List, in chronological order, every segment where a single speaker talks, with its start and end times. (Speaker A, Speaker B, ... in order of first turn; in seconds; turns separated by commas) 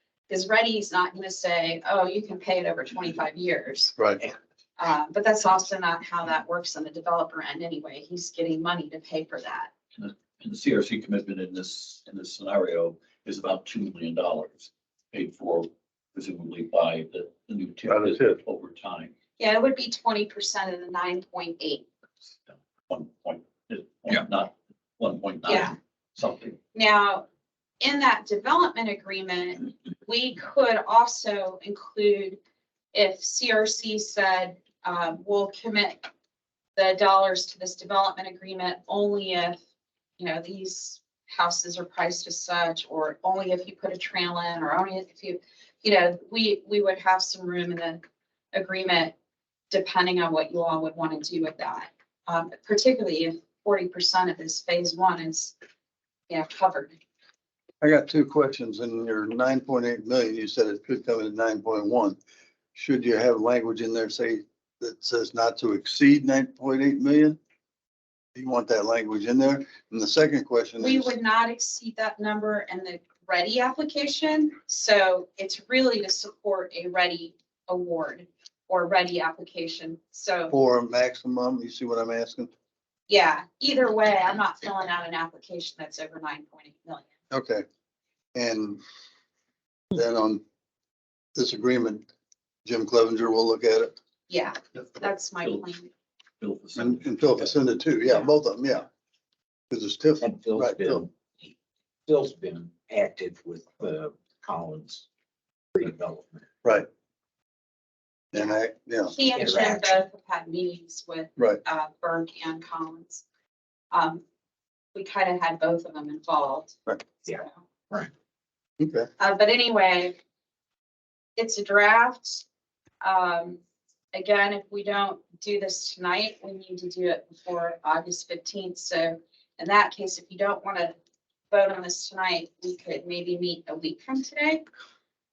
Speaker A: 0.3-4.0, Speaker A: 4.8-9.7, Speaker B: 9.9-19.1, Speaker C: 17.9-18.4, Speaker A: 19.4-21.9, Speaker B: 22.9-26.6, Speaker A: 25.4-25.8, Speaker A: 26.7-27.2, Speaker A: 27.8-32.4, Speaker A: 32.9-36.1, Speaker A: 36.8-39.6, Speaker A: 40.2-48.0, Speaker A: 48.5-49.1, Speaker A: 49.7-55.5, Speaker A: 56.3-57.0, Speaker C: 57.8-62.2, Speaker C: 62.7-67.4, Speaker C: 68.3-71.1, Speaker A: 70.8-80.5, Speaker C: 80.5-82.5, Speaker A: 83.1-87.1, Speaker C: 87.3-87.6, Speaker C: 88.3-88.8, Speaker C: 89.9-90.4, Speaker C: 91.3-92.1, Speaker C: 92.6-93.9, Speaker A: 94.3-95.9, Speaker B: 95.4-95.7, Speaker B: 96.4-97.5, Speaker C: 96.8-98.9, Speaker C: 99.7-101.0, Speaker D: 100.2-101.5, Speaker D: 102.1-105.0, Speaker D: 105.7-106.5, Speaker C: 108.3-109.1, Speaker A: 109.1-113.2, Speaker D: 109.3-110.0, Speaker A: 113.9-114.2, Speaker A: 114.9-117.6, Speaker D: 117.2-118.1, Speaker C: 118.8-119.1, Speaker A: 119.2-120.2, Speaker A: 121.4-122.4, Speaker A: 123.0-123.6, Speaker A: 124.1-130.9, Speaker A: 131.5-134.6